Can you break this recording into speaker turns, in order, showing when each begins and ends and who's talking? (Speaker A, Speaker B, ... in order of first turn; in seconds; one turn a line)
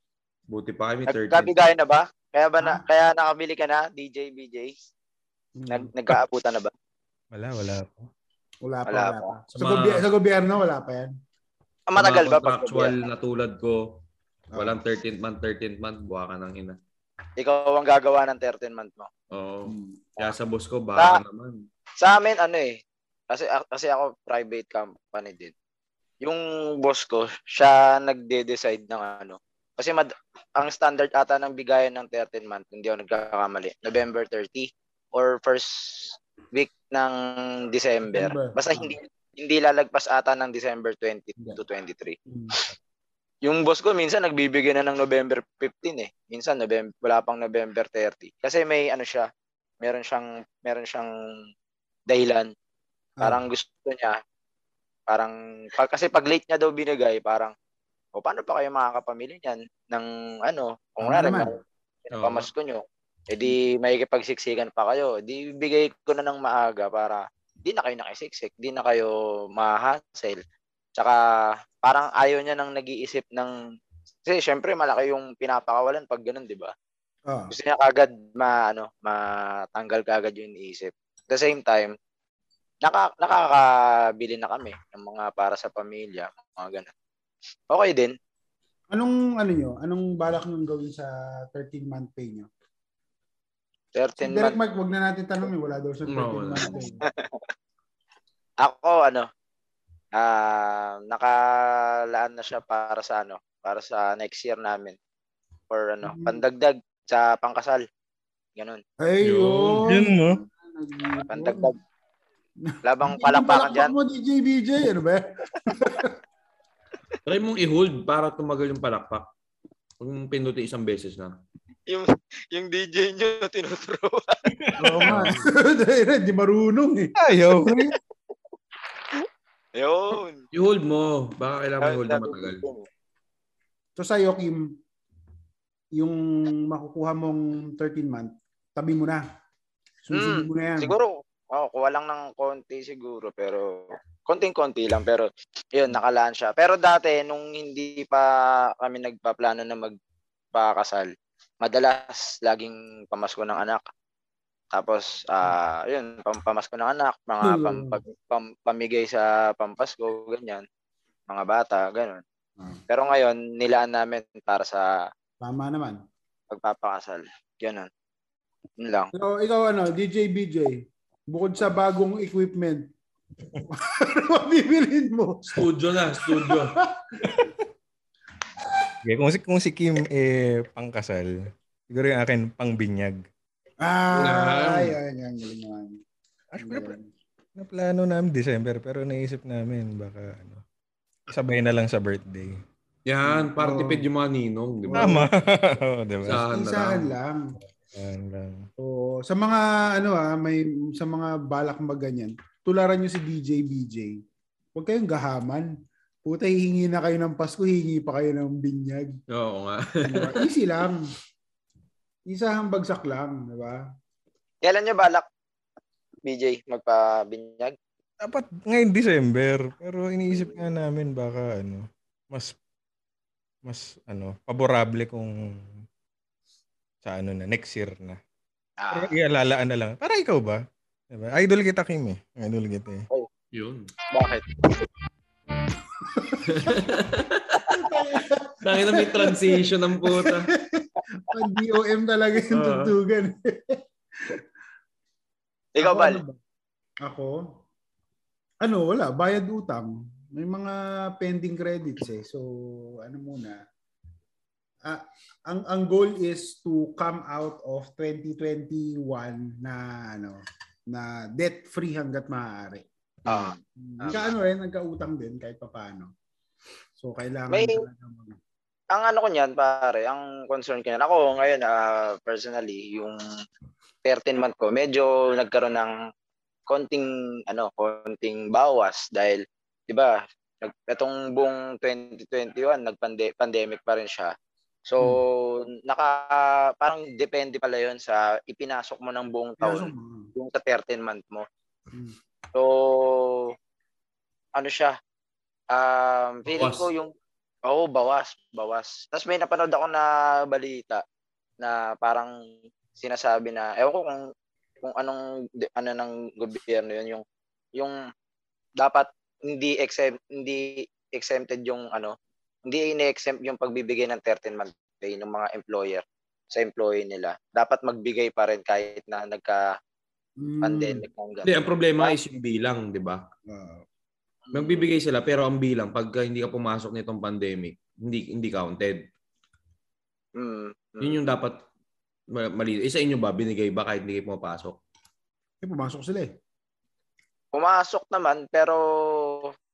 Speaker A: 0.5-1.6
Speaker B: 1.1-4.7
Speaker C: 5.6-5.9
Speaker B: 5.7-6.7
Speaker D: 7.3-8.1
Speaker C: 8.6-11.1
Speaker B: 8.9-9.3
Speaker A: 9.6-10.1
Speaker B: 11.9-13.0
Speaker A: 12.0-14.0
Speaker C: 14.5-14.8
Speaker A: 14.6-16.8
Speaker B: 17.4-19.1
Speaker A: 19.3-21.6
Speaker C: 19.7-20.0
Speaker B: 22.0-22.8
Speaker B: 23.3-25.5
Speaker B: 26.2-42.6
Speaker C: 38.1-39.0
Speaker C: 42.3-42.6
Speaker B: 43.5-49.3
Speaker B: 49.8-51.1
Speaker B: 52.1-52.5
Speaker B: 53.2-54.2
Speaker B: 55.1-57.5
Speaker B: 58.2-70.4
Speaker C: 61.0-61.5
Speaker A: 62.1-62.5
Speaker B: 71.8-73.5
Speaker B: 74.3-76.7
Speaker C: 77.3-77.5
Speaker B: 77.5-81.9
Speaker B: 82.8-86.9
Speaker B: 87.7-88.1
Speaker C: 88.9-92.5
Speaker B: 94.0-94.6
Speaker C: 94.2-97.0
Speaker A: 96.1-96.9
Speaker B: 98.6-99.3
Speaker B: 100.1-105.0
Speaker B: 105.7-107.8
Speaker C: 106.0-106.4
Speaker C: 109.0-111.7
Speaker A: 109.2-109.9
Speaker D: 109.8-110.4
Speaker B: 111.3-111.8
Speaker C: 112.6-116.2
Speaker B: 112.8-113.9
Speaker A: 117.2-119.3
Speaker A: 120.0-121.3
Speaker B: 121.9-124.4
Speaker D: 124.6-125.4
Speaker C: 124.8-127.2
Speaker A: 125.1-125.4
Speaker D: 127.2-128.0
Speaker B: 129.8-130.4
Speaker A: 130.5-132.6
Speaker B: 131.8-132.9
Speaker C: 134.0-134.7
Speaker C: 135.9-139.2
Speaker C: 140.0-140.9
Speaker B: 140.1-149.9
Speaker B: 150.5-151.1
Speaker B: 151.6-153.8
Speaker B: 154.7-160.6
Speaker C: 157.4-158.0
Speaker B: 161.3-162.2
Speaker B: 162.9-165.0
Speaker C: 165.4-166.0
Speaker B: 166.5-167.9
Speaker B: 168.8-169.1
Speaker C: 169.1-172.9
Speaker C: 173.7-177.5
Speaker A: 175.5-176.8
Speaker C: 178.6-178.9
Speaker D: 179.0-183.2
Speaker C: 183.8-186.0
Speaker A: 184.1-185.0
Speaker D: 186.5-187.0
Speaker C: 186.6-187.1
Speaker D: 187.6-190.6
Speaker D: 191.3-192.6
Speaker A: 193.1-195.2
Speaker C: 193.2-194.1
Speaker C: 194.9-195.3
Speaker D: 194.9-196.4
Speaker A: 196.2-197.1
Speaker C: 196.3-197.6
Speaker D: 197.9-198.7
Speaker C: 198.8-204.2
Speaker C: 204.8-205.7
Speaker C: 206.2-209.2
Speaker A: 209.3-210.5
Speaker C: 210.0-211.1
Speaker C: 212.3-213.8
Speaker B: 214.6-215.3
Speaker B: 216.3-217.8
Speaker D: 218.2-222.6
Speaker D: 223.7-225.7
Speaker D: 227.0-228.2
Speaker B: 228.8-229.1
Speaker D: 228.9-233.1
Speaker A: 233.5-233.9
Speaker B: 234.1-234.7
Speaker C: 236.1-236.8
Speaker A: 236.4-237.6
Speaker C: 237.7-244.4
Speaker A: 238.6-240.5
Speaker A: 242.5-242.9
Speaker B: 245.8-246.2
Speaker C: 245.8-246.4
Speaker C: 247.0-247.5
Speaker C: 248.6-253.6
Speaker C: 254.8-266.1
Speaker B: 263.3-264.3
Speaker C: 267.0-268.4
Speaker B: 267.5-267.8
Speaker B: 268.9-273.2
Speaker B: 274.0-276.0
Speaker B: 276.7-284.3
Speaker B: 284.9-291.5
Speaker C: 289.6-290.3
Speaker B: 292.5-293.5
Speaker B: 294.6-295.0
Speaker B: 295.7-297.1
Speaker A: 296.5-296.9
Speaker B: 297.7-301.0
Speaker B: 301.6-302.3
Speaker B: 303.0-304.2
Speaker B: 304.8-307.2
Speaker B: 308.8-312.1
Speaker B: 312.7-319.7
Speaker C: 320.4-321.0
Speaker B: 320.6-322.2
Speaker A: 321.4-323.2
Speaker C: 323.5-323.9
Speaker B: 324.5-324.9
Speaker A: 324.5-329.1
Speaker B: 330.4-331.2
Speaker A: 331.0-331.6
Speaker A: 332.3-334.8
Speaker C: 335.6-336.3
Speaker B: 337.5-339.5